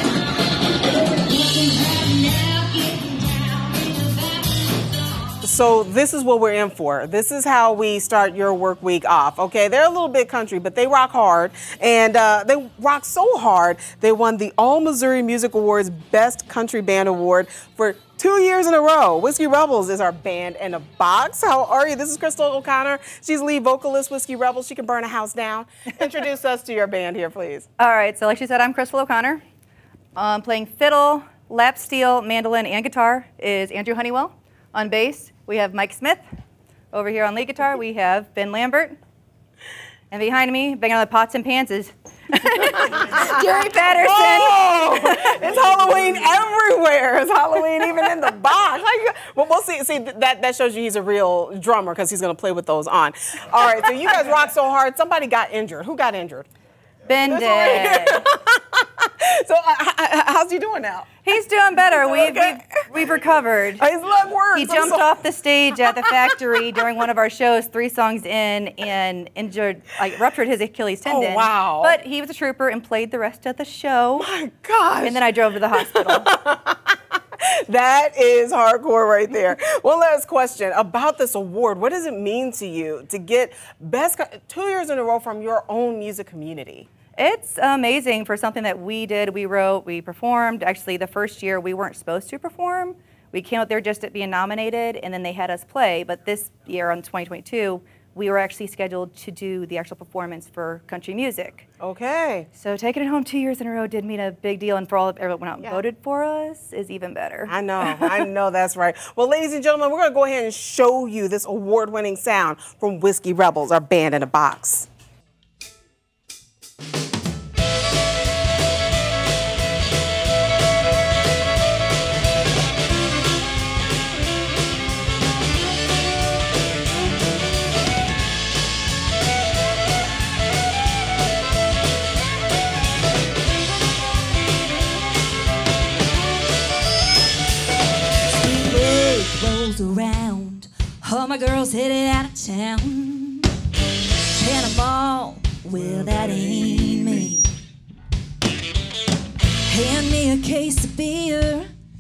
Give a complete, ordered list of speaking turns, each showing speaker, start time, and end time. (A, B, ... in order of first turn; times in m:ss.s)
0:01.6-0:03.1 A
0:05.4-0:27.6 B
0:27.8-0:29.4 C
0:30.2-0:36.2 C
0:36.9-0:39.0 C
0:40.1-0:45.5 C
0:43.9-0:56.5 B
0:57.0-0:58.2 C
0:57.3-1:01.2 B
1:01.2-1:03.8 C
1:01.8-1:03.2 B
1:03.8-1:05.2 B
1:04.5-1:14.3 C
1:05.8-1:06.3 B
1:11.0-1:12.0 B
1:14.2-1:15.2 B
1:15.0-1:16.3 C
1:15.8-1:26.9 B
1:27.2-1:41.6 C
1:41.8-1:42.5 B
1:42.5-1:48.2 C
1:47.5-1:54.9 B
2:18.2-2:23.5 A
2:24.2-2:27.5 A
2:29.6-2:31.7 A